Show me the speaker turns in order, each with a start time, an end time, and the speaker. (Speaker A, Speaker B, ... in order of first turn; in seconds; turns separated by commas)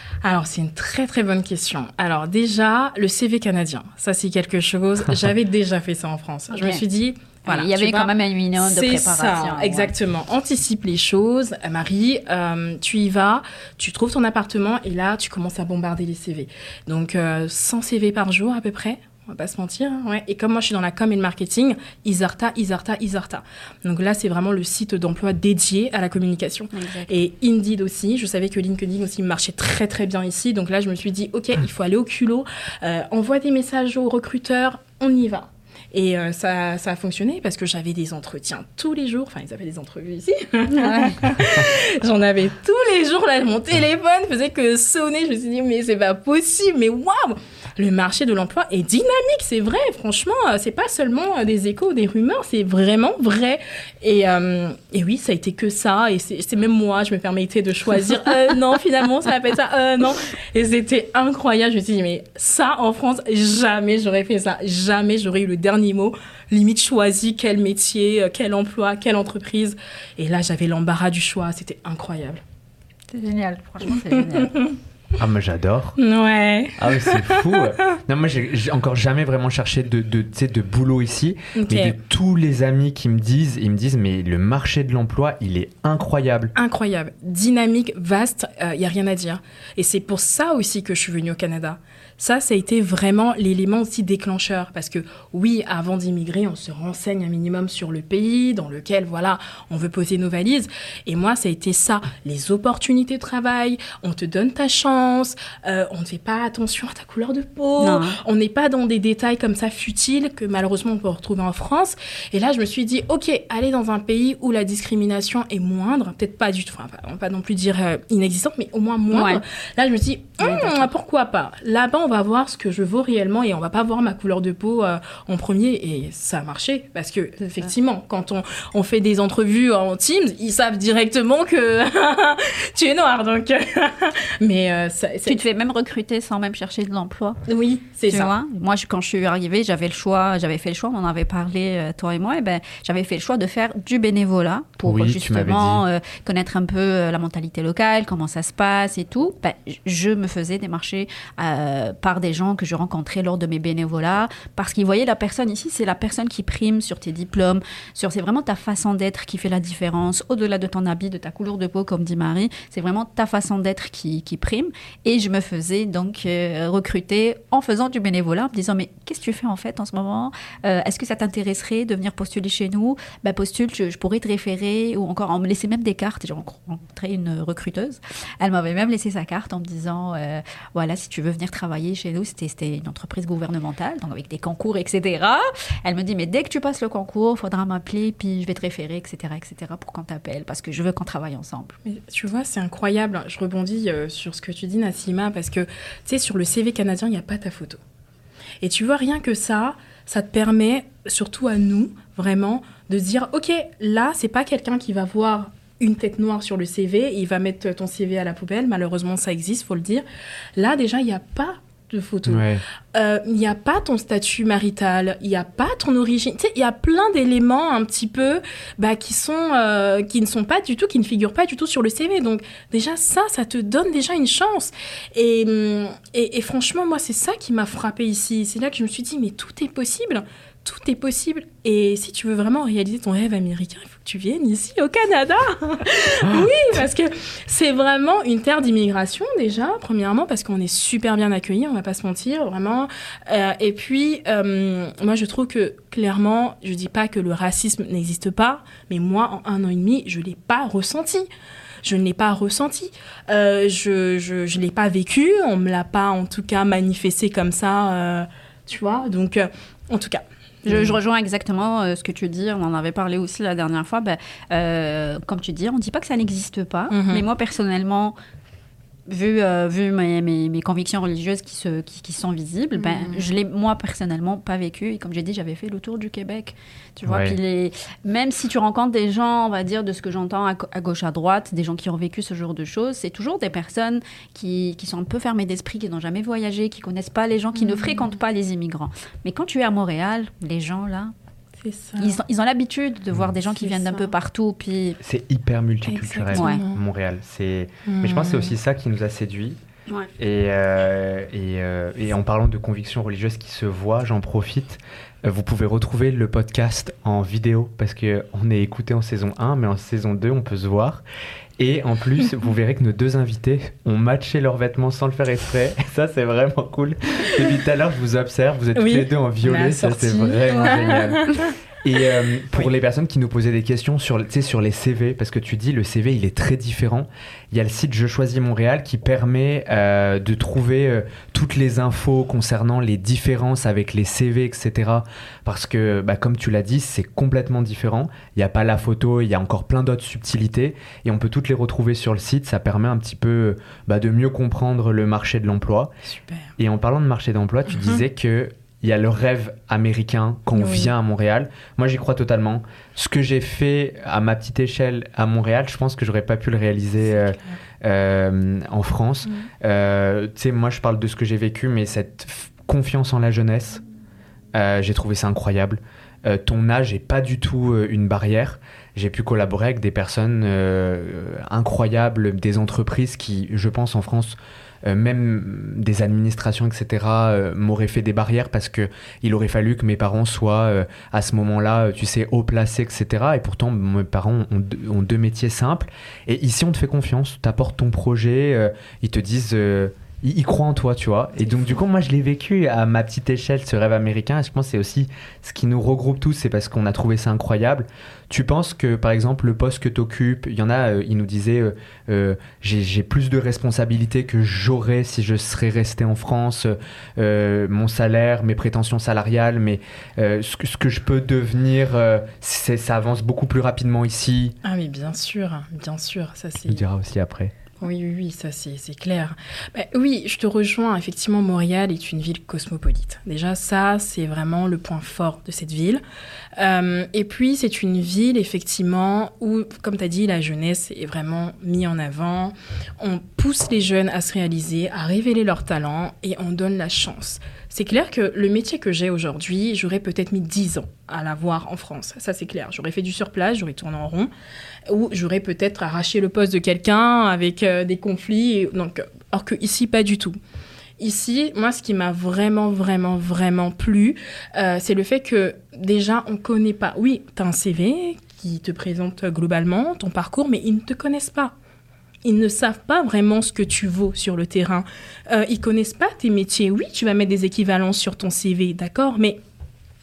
Speaker A: 0.2-72.4, Speaker B: 6.5-6.8, Speaker B: 7.4-9.9, Speaker B: 26.7-27.1, Speaker B: 40.7-41.2, Speaker B: 73.1-74.6, Speaker A: 73.9-74.7, Speaker C: 75.2-76.0, Speaker A: 76.0-77.7, Speaker C: 76.8-86.5, Speaker A: 81.5-82.0, Speaker A: 86.5-135.4, Speaker B: 107.8-108.2, Speaker B: 119.1-119.4, Speaker B: 120.4-120.9, Speaker B: 135.2-137.4, Speaker A: 137.5-138.3, Speaker B: 138.1-191.8, Speaker C: 144.8-145.8, Speaker A: 191.8-197.8, Speaker A: 198.6-210.0, Speaker A: 210.6-251.3, Speaker C: 212.2-212.6, Speaker A: 251.8-261.0, Speaker B: 260.6-268.1, Speaker A: 266.9-267.2, Speaker B: 269.1-291.1, Speaker A: 272.8-273.3, Speaker C: 277.1-277.4, Speaker A: 287.5-288.1, Speaker A: 291.6-292.2, Speaker B: 292.0-295.0, Speaker A: 293.6-294.1, Speaker C: 295.0-299.6, Speaker A: 295.9-296.8, Speaker B: 296.3-296.6, Speaker A: 297.9-298.5, Speaker C: 300.2-311.0, Speaker C: 311.6-321.3, Speaker A: 318.7-321.4, Speaker C: 321.8-345.9, Speaker A: 346.0-346.5, Speaker C: 346.6-363.8, Speaker A: 347.7-348.0, Speaker A: 350.5-350.9, Speaker A: 357.1-357.6, Speaker C: 364.5-414.5, Speaker A: 414.6-416.8, Speaker C: 416.7-417.5, Speaker A: 417.8-426.0, Speaker A: 426.6-444.3, Speaker A: 444.9-450.4, Speaker A: 451.0-461.5, Speaker A: 462.2-469.4